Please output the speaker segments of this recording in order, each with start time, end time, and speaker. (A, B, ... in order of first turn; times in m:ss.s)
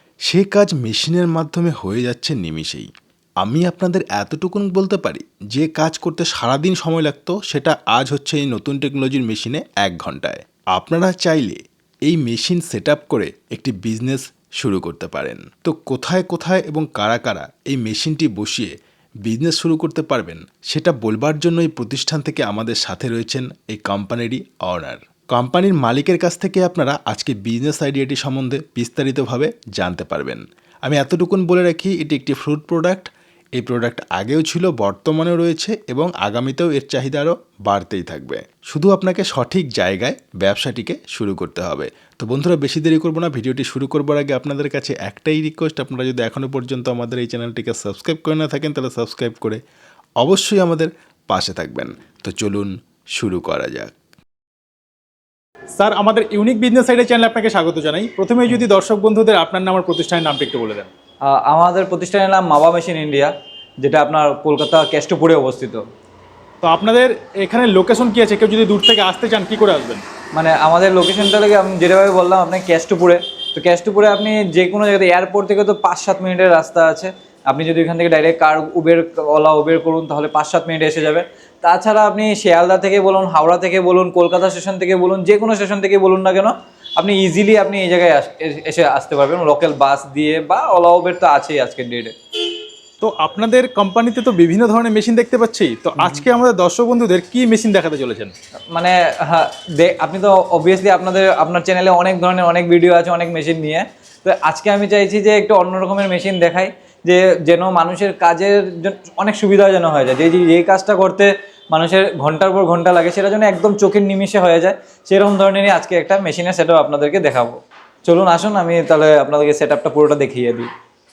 0:00.3-0:02.9 A
0:03.4-0:18.7 A
0:19.2-0:49.6 A
0:50.2-0:53.9 A
0:55.8-1:00.9 B
1:01.2-1:05.8 C
1:06.6-1:10.0 B
1:10.3-1:32.1 C
1:33.0-1:38.3 B
1:36.0-1:36.3 C
1:38.7-2:00.7 C